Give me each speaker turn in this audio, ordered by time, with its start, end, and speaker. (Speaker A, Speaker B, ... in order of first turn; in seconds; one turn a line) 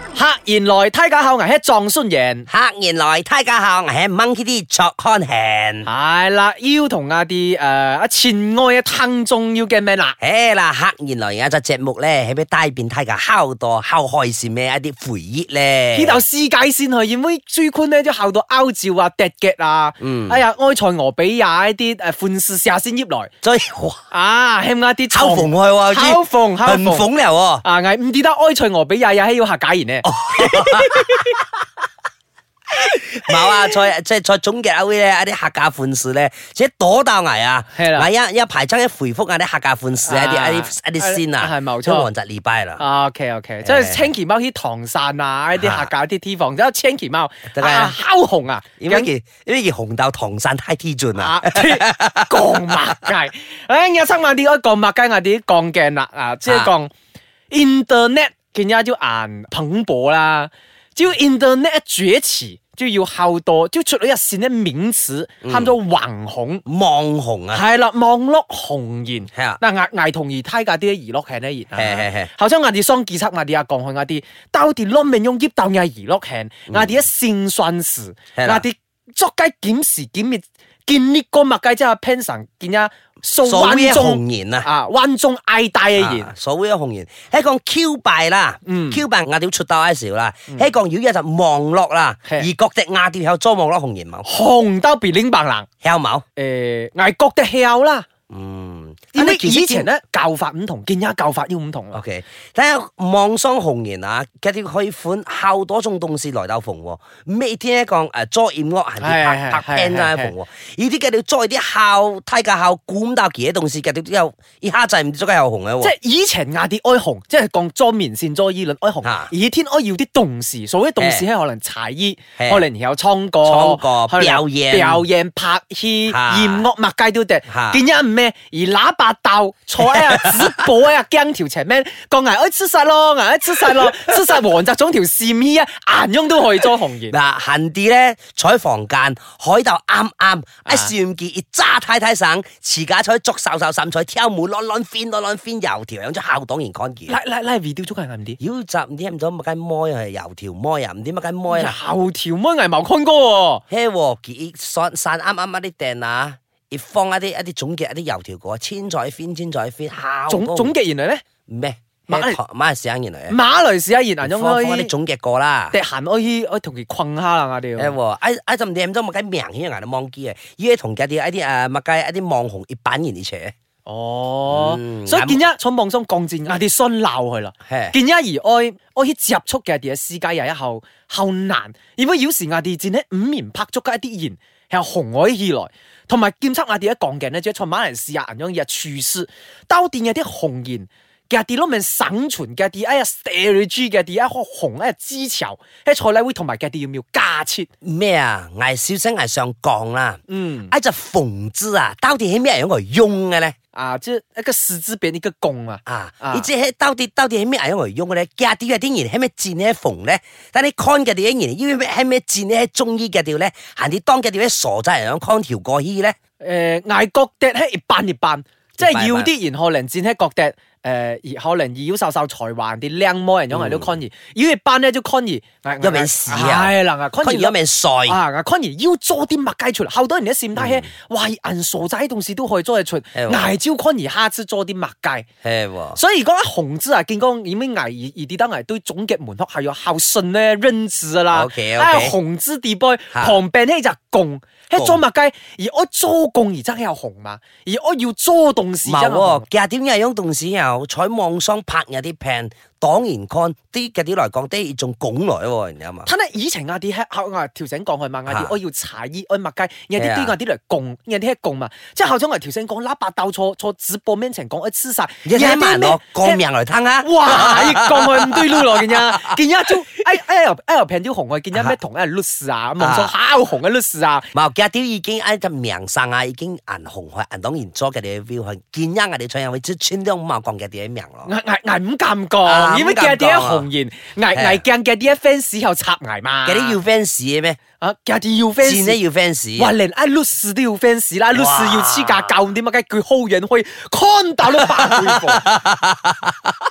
Speaker A: 0.1-2.5
Speaker B: 2.5-5.9
Speaker A: 5.9-10.2
Speaker B: 10.2-16.2
Speaker A: 15.9-23.3
Speaker B: 20.0-20.4
Speaker B: 23.4-24.0
Speaker A: 24.1-27.1
Speaker B: 25.1-27.6
Speaker A: 27.6-31.4
Speaker B: 30.0-31.3
Speaker A: 32.8-33.8
Speaker B: 33.0-42.8
Speaker A: 37.7-38.1
Speaker A: 40.0-42.1
Speaker A: 42.8-49.1
Speaker B: 43.6-44.1
Speaker B: 45.6-45.9
Speaker B: 47.5-47.9
Speaker B: 48.8-52.9
Speaker A: 51.2-56.9
Speaker A: 57.5-66.6
Speaker B: 65.4-65.8
Speaker B: 66.7-67.6
Speaker A: 67.5-86.3
Speaker B: 69.3-69.6
Speaker B: 71.7-72.3
Speaker B: 78.4-78.6
Speaker B: 83.4-84.7
Speaker B: 86.0-94.3
Speaker A: 88.7-89.0
Speaker A: 94.2-95.7
Speaker B: 95.8-96.2
Speaker A: 96.4-98.1
Speaker B: 98.3-99.9
Speaker A: 99.1-102.0
Speaker B: 101.9-115.9
Speaker A: 109.0-110.3
Speaker A: 115.8-137.2
Speaker B: 119.0-119.3
Speaker B: 121.0-121.2
Speaker B: 122.4-122.6
Speaker B: 123.4-125.0
Speaker B: 126.1-126.7
Speaker B: 127.5-127.8
Speaker B: 129.9-130.5
Speaker B: 137.1-147.2
Speaker A: 140.7-140.9
Speaker A: 147.1-148.4
Speaker B: 148.4-151.8
Speaker A: 151.5-153.6
Speaker B: 153.7-160.7
Speaker A: 160.3-161.2
Speaker B: 161.5-163.4
Speaker A: 162.1-162.4
Speaker A: 163.3-164.9
Speaker B: 164.2-165.8
Speaker A: 165.7-168.0
Speaker B: 167.8-173.5
Speaker A: 173.9-197.7
Speaker B: 174.5-175.4
Speaker B: 177.7-177.9
Speaker B: 197.8-203.6
Speaker A: 200.3-200.7
Speaker A: 203.7-206.5
Speaker B: 205.9-216.2
Speaker A: 216.4-227.6
Speaker B: 218.8-219.3
Speaker B: 223.5-223.9
Speaker B: 225.8-228.2
Speaker A: 228.1-235.3
Speaker B: 230.6-230.9
Speaker B: 233.2-233.5
Speaker B: 235.4-236.0
Speaker A: 236.0-249.4
Speaker B: 241.3-242.2
Speaker B: 243.1-243.4
Speaker B: 244.8-245.0
Speaker B: 248.8-256.1
Speaker A: 256.1-266.4
Speaker B: 258.3-258.6
Speaker B: 260.0-260.3
Speaker B: 265.2-269.4
Speaker A: 267.0-274.3
Speaker B: 272.8-273.1
Speaker B: 274.3-281.3
Speaker A: 281.3-286.8
Speaker B: 282.4-283.7
Speaker B: 284.3-284.6
Speaker B: 286.5-287.6
Speaker A: 287.8-289.0
Speaker B: 288.6-289.7
Speaker A: 289.6-295.4
Speaker B: 291.3-292.3
Speaker B: 294.5-296.6